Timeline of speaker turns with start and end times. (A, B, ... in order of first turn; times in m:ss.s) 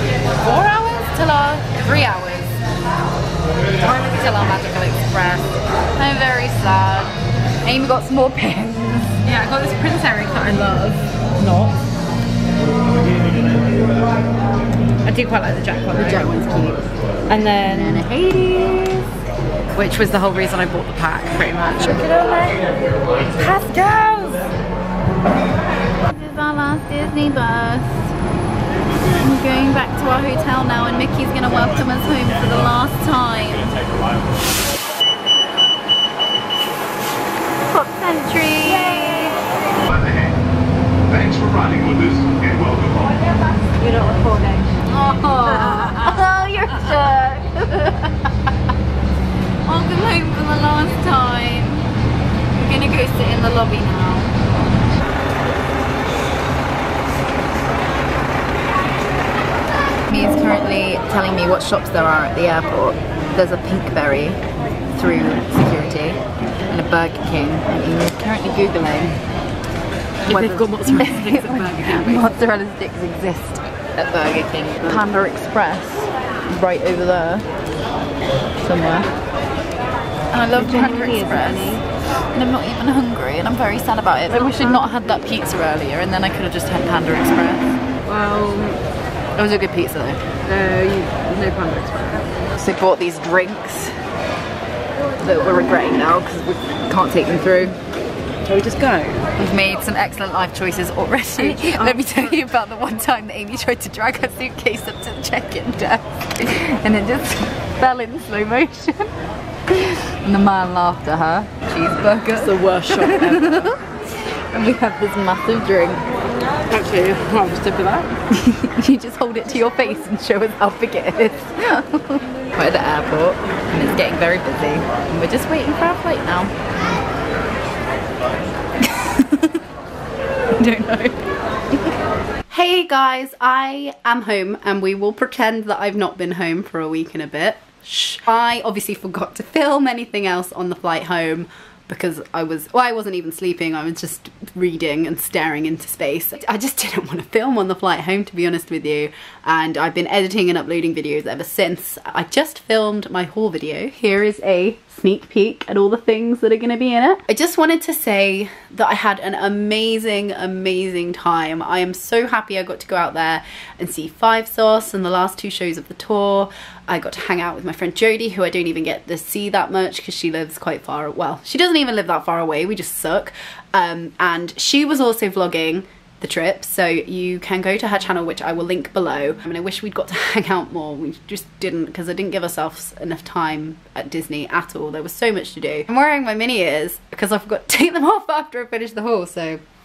0:00.4-0:02.6 A
0:03.8-0:09.2 A
0:09.2-0:11.8 B
0:15.0-0:16.3 B
0:15.9-0:16.9 A
0:17.3-0:18.0 B
0:17.6-0:19.1 A
0:19.7-0:22.7 B
0:23.3-0:24.5 B
0:26.0-0:28.1 A
0:29.2-0:33.7 A
0:37.7-0:39.4 A
0:39.9-0:40.4 C
0:41.1-0:43.2 C
0:43.8-0:44.8 B
0:44.8-0:48.5 A
0:45.6-0:46.1 B
0:49.6-0:51.9 A
0:52.5-0:54.3 A
1:00.1-1:04.4 A
1:04.9-1:09.2 A
1:10.2-1:12.3 B
1:10.3-1:17.5 A
1:14.5-1:15.0 B
1:18.6-1:19.1 A
1:20.3-1:21.8 A
1:20.6-1:21.8 B
1:22.3-1:27.7 A
1:24.3-1:24.9 B
1:28.0-1:28.8 B
1:29.4-1:30.3 A
1:30.4-1:32.3 B
1:32.5-1:34.0 A
1:35.2-1:37.8 A
1:38.4-1:39.2 B
1:38.9-1:49.1 A
1:41.4-1:42.4 B
1:49.7-1:53.9 A
1:52.4-1:53.7 B
1:54.5-1:56.0 A
1:56.7-1:58.1 B
1:58.3-2:06.6 A
2:08.8-2:09.6 A
2:10.6-2:11.2 A
2:12.5-3:09.6 A